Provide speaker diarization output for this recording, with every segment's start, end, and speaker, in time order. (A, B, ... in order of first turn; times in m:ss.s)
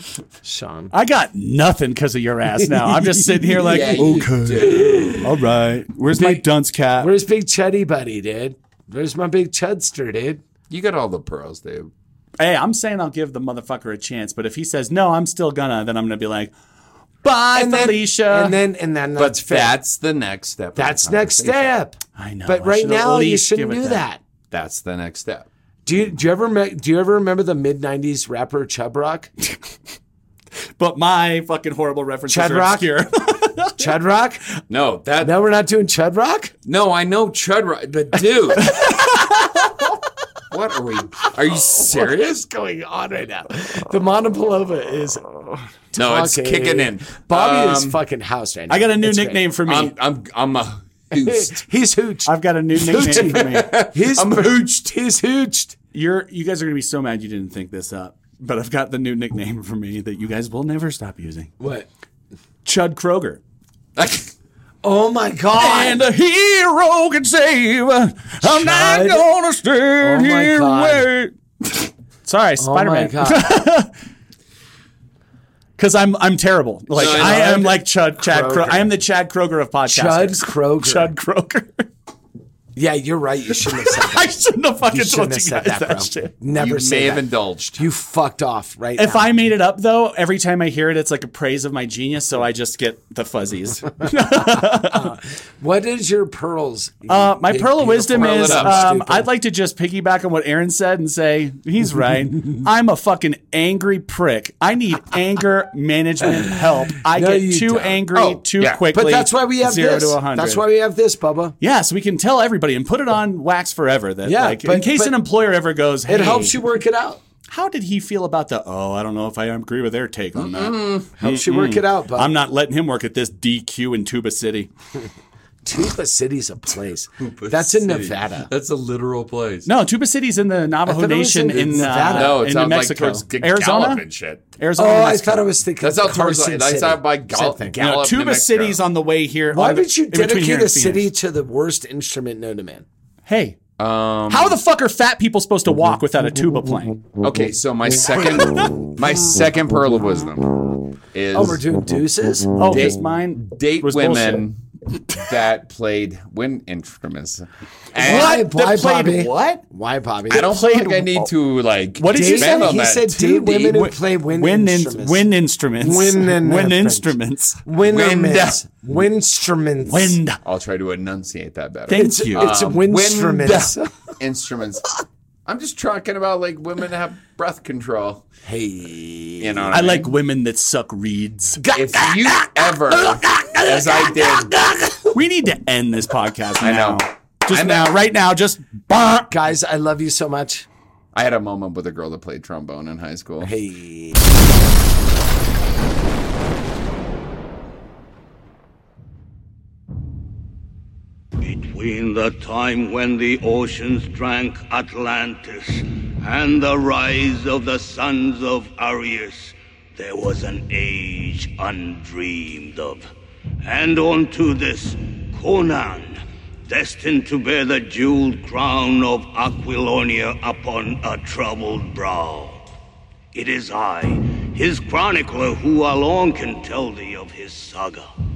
0:00.4-0:00.9 A
0:00.9-0:07.1 B
0:02.6-0:05.2 A
0:03.6-0:05.3 C
0:06.2-0:06.4 A
0:07.0-0:10.4 A
0:10.7-0:11.9 C
0:12.4-0:16.5 B
0:17.2-0:18.6 B
0:17.5-0:19.7 A
0:19.2-0:21.7 C
0:20.8-0:24.2 A
0:22.2-0:24.0 B
0:24.5-0:25.5 C
0:25.8-0:29.3 A
0:30.8-0:33.8 B
0:32.3-0:32.9 A
0:33.8-0:34.4 A
0:34.7-0:35.3 C
0:35.2-0:36.5 A
0:36.6-0:39.0 C
0:38.6-0:39.3 B
0:40.5-0:42.4 C
0:41.5-0:49.4 A
0:45.9-0:48.0 C
0:48.7-0:49.9 B
0:49.6-0:51.6 C
0:51.1-0:55.8 A
0:52.2-0:53.7 B
0:53.0-0:54.6 C
0:55.9-1:01.5 B
1:01.6-1:01.8 A
1:02.6-1:03.4 B
1:04.0-1:04.3 C
1:04.8-1:06.0 A
1:05.6-1:13.9 B
1:08.4-1:09.3 A
1:10.0-1:11.1 A
1:12.6-1:13.6 A
1:15.8-1:21.9 B
1:17.0-1:17.8 C
1:18.2-1:18.8 A
1:19.9-1:21.1 A
1:22.8-1:27.2 A
1:23.7-1:26.3 B
1:26.6-1:27.8 C
1:27.8-1:29.3 A
1:29.0-1:35.1 B
1:34.7-1:39.2 A
1:37.1-1:50.6 B
1:38.1-1:38.9 C
1:47.0-1:47.9 A
1:47.7-1:48.8 C
1:48.8-1:51.5 A
1:51.6-1:56.6 B
1:54.2-1:55.2 A
1:56.1-1:57.2 A
1:57.5-2:04.7 B
2:00.3-2:01.1 C
2:01.2-2:02.3 A
2:05.6-2:08.5 A
2:07.2-2:09.7 C
2:09.6-2:14.0 B
2:10.9-2:12.4 A
2:12.1-2:14.4 C
2:14.6-2:15.5 B
2:14.8-2:17.8 A
2:15.8-2:18.8 C
2:17.8-2:21.1 B
2:19.5-2:22.8 A
2:23.2-2:23.6 B
2:23.8-2:24.6 C
2:24.3-2:27.0 B
2:27.2-2:31.6 C
2:31.3-2:32.8 A
2:32.6-2:34.4 B
2:32.7-2:34.6 C
2:35.1-2:38.4 C
2:38.0-2:39.6 B
2:38.0-2:40.5 A
2:40.3-2:41.3 B
2:40.3-2:43.7 C
2:42.0-2:47.6 B
2:42.1-2:45.3 A
2:45.8-2:50.2 A
2:47.8-2:48.6 C
2:49.9-2:50.4 B
2:50.4-2:54.8 C
2:51.9-2:52.4 B
2:51.9-2:53.8 A
2:55.4-2:58.2 C
2:58.4-2:59.7 A
2:59.4-3:00.1 C
2:59.7-3:09.3 B
3:01.7-3:04.5 C
3:06.6-3:07.9 C
3:09.3-3:10.6 A
3:11.1-3:13.5 C
3:13.4-3:14.2 A
3:21.4-3:33.1 D
3:33.6-3:42.6 D
3:43.3-3:48.1 D